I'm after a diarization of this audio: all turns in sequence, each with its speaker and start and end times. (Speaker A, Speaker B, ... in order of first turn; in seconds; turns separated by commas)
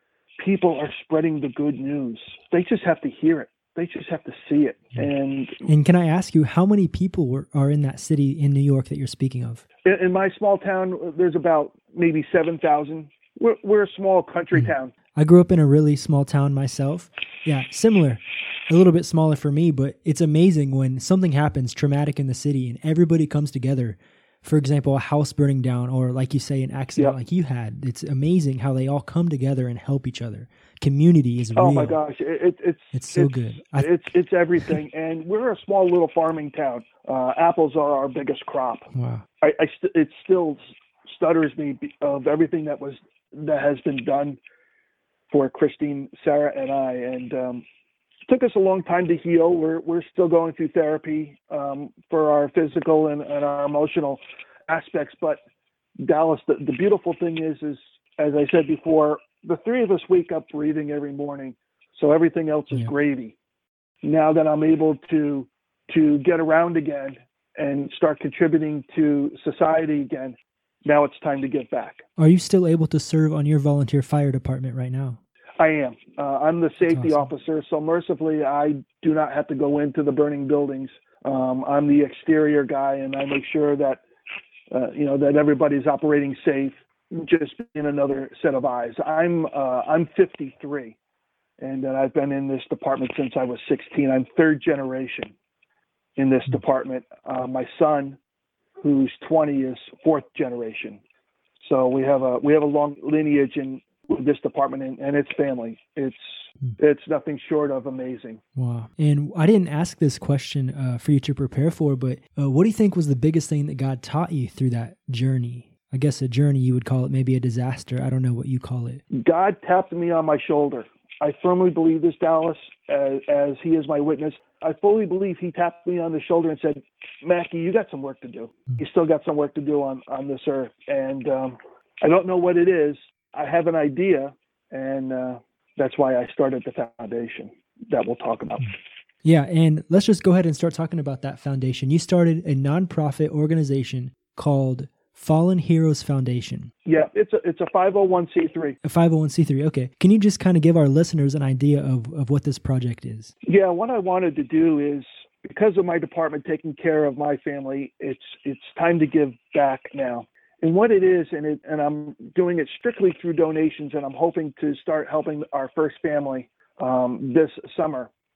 Speaker A: 0.4-5.6, Speaker B: 5.6-9.6, Speaker A: 9.8-14.9, Speaker B: 14.6-32.0, Speaker A: 31.5-38.9, Speaker B: 32.9-33.9, Speaker B: 38.9-39.2, Speaker A: 39.4-44.4, Speaker A: 45.3-47.6, Speaker A: 48.3-55.4, Speaker A: 56.0-63.3, Speaker A: 64.0-72.0, Speaker B: 72.2-75.2, Speaker A: 75.6-84.0, Speaker B: 76.9-77.3, Speaker A: 84.7-91.0, Speaker A: 91.6-95.3, Speaker A: 96.2-98.2, Speaker A: 98.8-101.0, Speaker A: 101.6-108.4, Speaker B: 108.5-119.0, Speaker A: 119.1-138.7, Speaker B: 139.2-146.7, Speaker A: 146.8-148.8, Speaker B: 148.8-153.3, Speaker A: 153.4-168.1